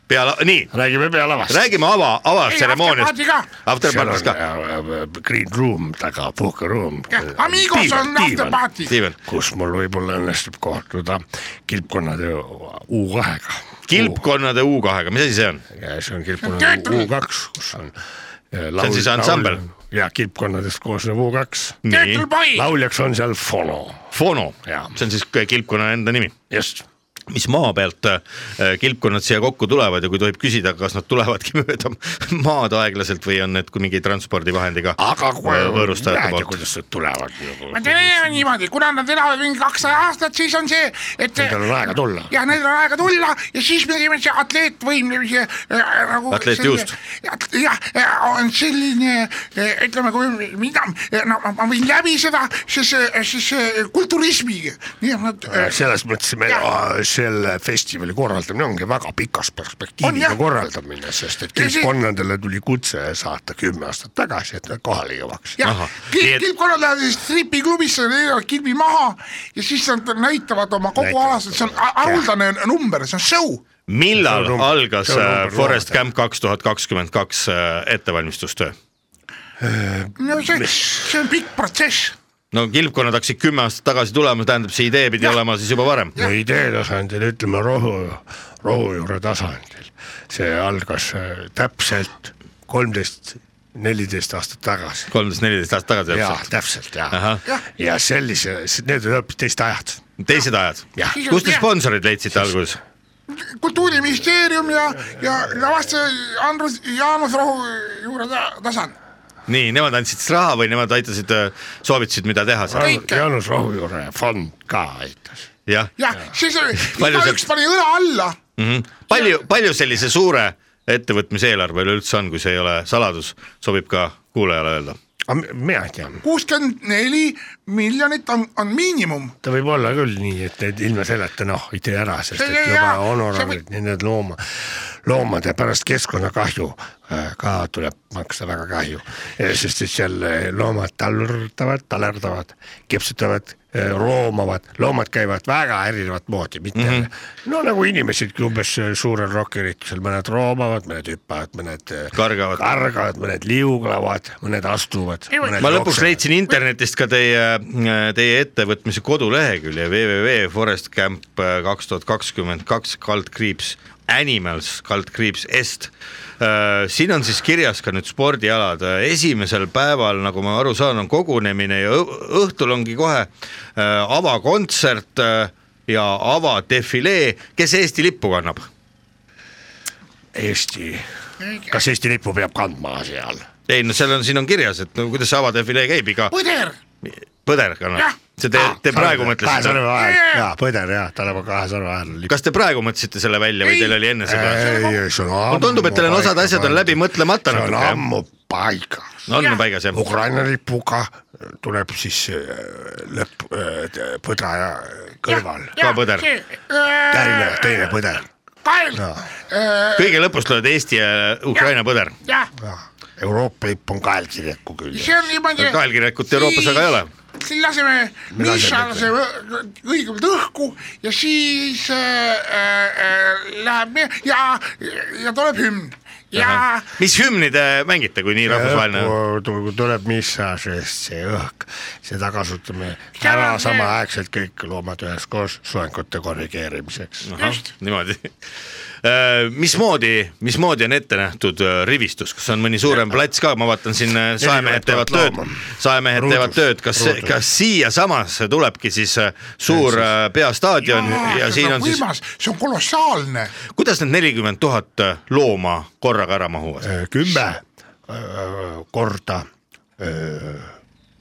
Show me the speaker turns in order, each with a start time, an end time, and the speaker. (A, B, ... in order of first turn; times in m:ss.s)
0:00.1-0:00.7 A
0:00.7-0:01.6 B
0:01.5-0:04.4 A
0:02.4-0:03.5 C
0:03.8-0:08.6 B
0:07.1-0:08.9 C
0:08.8-0:09.2 A
0:09.2-0:14.2 B
0:13.9-0:15.6 A
0:15.7-0:18.0 B
0:16.4-0:17.1 C
0:18.5-0:21.8 B
0:18.8-0:19.6 A
0:21.8-0:22.3 A
0:21.9-0:22.7 C
0:22.5-0:24.1 B
0:24.1-0:26.3 A
0:24.6-0:25.0 B
0:26.5-0:26.9 B
0:27.3-0:36.6 A
0:35.0-0:38.3 B
0:37.7-0:41.6 C
0:41.4-0:42.3 B
0:42.3-0:55.8 C
0:46.3-0:46.9 A
0:55.4-1:05.6 B
1:00.0-1:00.4 C
1:01.6-1:01.9 C
1:05.6-1:13.6 C
1:05.6-1:06.4 A
1:11.0-1:12.3 B
1:13.9-1:18.7 A
1:14.2-1:16.0 B
1:19.6-1:21.2 B
1:20.2-1:22.1 C
1:22.5-1:26.2 A
1:26.2-1:35.1 B
1:35.1-1:36.4 A
1:36.1-1:40.0 B
1:37.1-1:37.4 A
1:40.2-1:42.8 A
1:41.0-1:41.4 B
1:41.1-1:41.7 C
1:43.3-1:48.9 C
1:49.5-1:53.0 A
1:52.7-1:55.4 B
1:52.8-1:53.2 C
1:55.7-1:55.9 A
1:56.0-1:58.4 C
1:56.8-1:57.4 A
1:58.6-2:05.0 A
2:05.3-2:06.2 B
2:06.2-2:09.3 C
2:09.4-2:36.2 B
2:12.3-2:13.6 C
2:26.8-2:27.1 A
2:32.1-2:32.6 A
2:35.3-2:35.7 C
2:35.6-2:58.7 A
3:00.3-3:01.0 B
3:01.4-3:01.8 C
3:01.7-3:03.4 B
3:03.7-3:06.3 A
3:06.3-3:06.8 C
3:07.0-3:09.8 A
3:08.5-3:12.4 B
3:09.9-3:10.4 C
3:12.3-3:14.7 A
3:13.6-3:15.0 C
3:14.2-3:19.2 B
3:15.5-3:18.0 A
3:19.3-3:20.0 A
3:19.9-3:25.8 B
3:25.3-3:27.9 C
3:25.8-3:26.3 A
3:27.1-3:28.3 B
3:28.6-3:30.2 C
3:29.0-3:29.3 B
3:30.0-3:32.1 A
3:32.2-3:32.5 C
3:32.6-3:35.3 B
3:34.9-3:46.9 C
3:35.6-3:37.1 A
3:38.3-3:39.1 B
3:46.3-3:49.1 A
3:48.4-3:57.3 B
3:53.2-3:53.9 C
3:57.2-3:58.3 A
3:59.0-4:12.0 A
4:04.4-4:07.4 B
4:09.7-4:10.1 B
4:10.8-4:13.5 C
4:13.7-4:16.9 A
4:16.8-4:19.5 B
4:20.0-4:20.7 B